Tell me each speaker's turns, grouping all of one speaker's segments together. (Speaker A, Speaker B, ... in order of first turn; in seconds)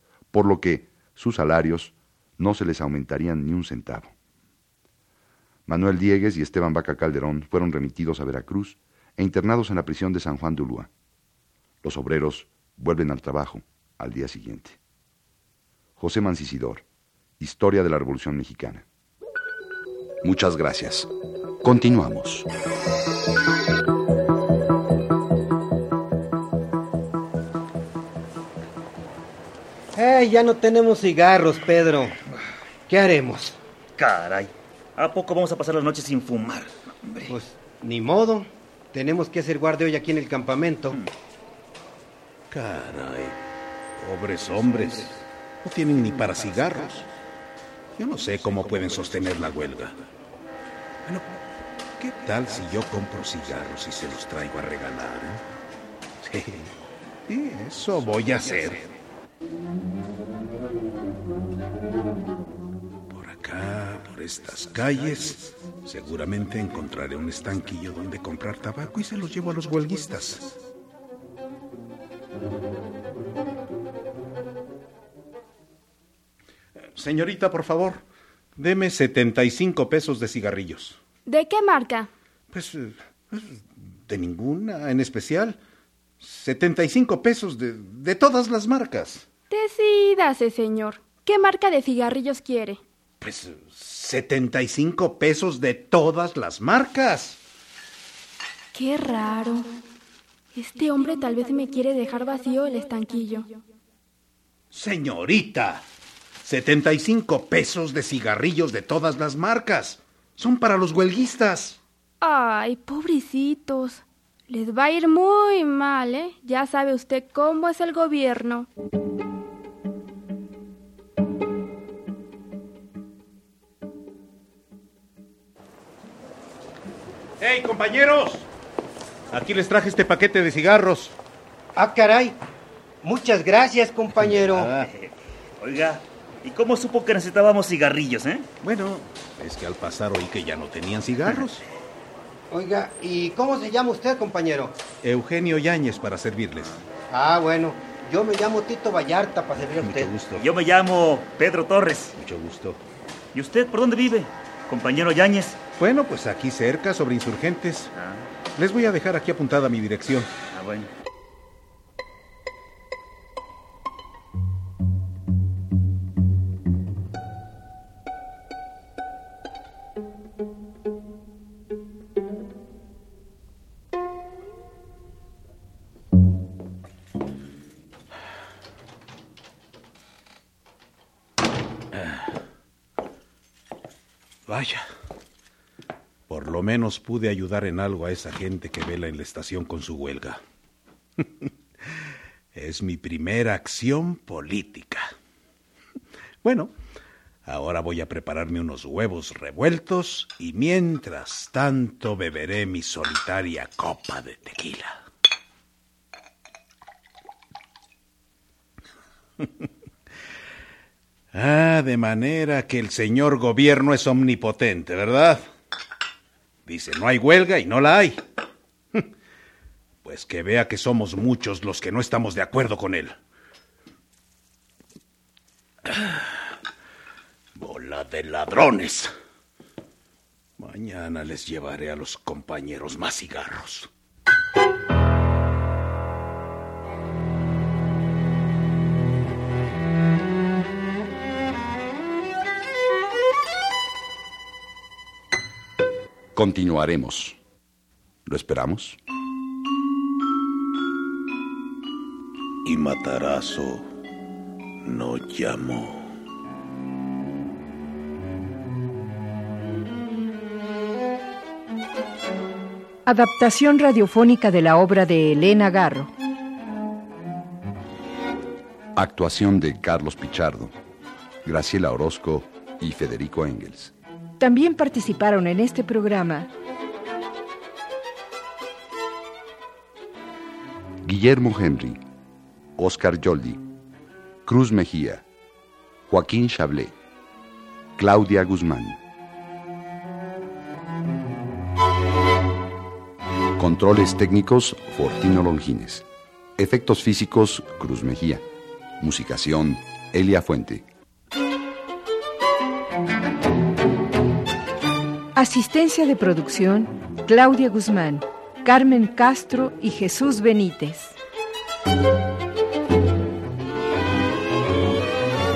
Speaker A: 0.3-4.1, 5.7-10.9, 11.8-14.8, 16.0-16.9, 17.4-18.9, 20.2-21.1, 21.6-22.5, 246.3-247.4, 248.2-249.0, 269.0-270.8, 271.4-273.9, 281.0-282.0, 282.8-283.6, 284.4-285.2, 286.1-286.9, 288.0-289.0, 293.6-296.1, 296.6-298.4, 299.0-300.9
Speaker B: 29.9-32.2, 32.9-33.6, 37.3-41.0, 131.8-132.4, 133.0-134.7, 142.5-144.8, 147.1-150.1
Speaker C: 34.0-37.3, 134.7-138.5, 149.8-152.2, 153.3-155.6, 157.9-158.2, 160.5-160.9
Speaker D: 42.5-43.4, 44.0-47.1, 48.0-50.0, 51.0-51.4, 52.0-55.4, 56.2-56.7, 57.3-58.9, 63.1-70.6, 77.0-78.0, 78.6-81.0, 82.5-85.6, 86.2-89.3, 93.2-97.4, 104.7-105.8, 106.4-111.8, 127.4-128.5, 129.3-131.2, 134.3-134.9, 138.6-141.6, 145.0-146.8, 149.8-150.5, 152.2-152.8, 155.8-157.9, 158.6-160.3, 181.9-182.3, 184.5-184.9, 186.3-190.4, 191.2-192.0, 192.5-195.1, 196.4-196.7, 197.4-205.0, 211.3-215.4, 216.7-218.2, 220.0-223.2, 225.8-226.5, 227.6-229.1, 230.6-233.9, 252.6-253.9, 254.8-256.1
Speaker E: 81.3-82.1, 89.5-92.8, 98.7-99.8, 100.5-103.6, 112.2-118.7
Speaker F: 263.1-266.1, 274.4-276.5, 305.4-311.2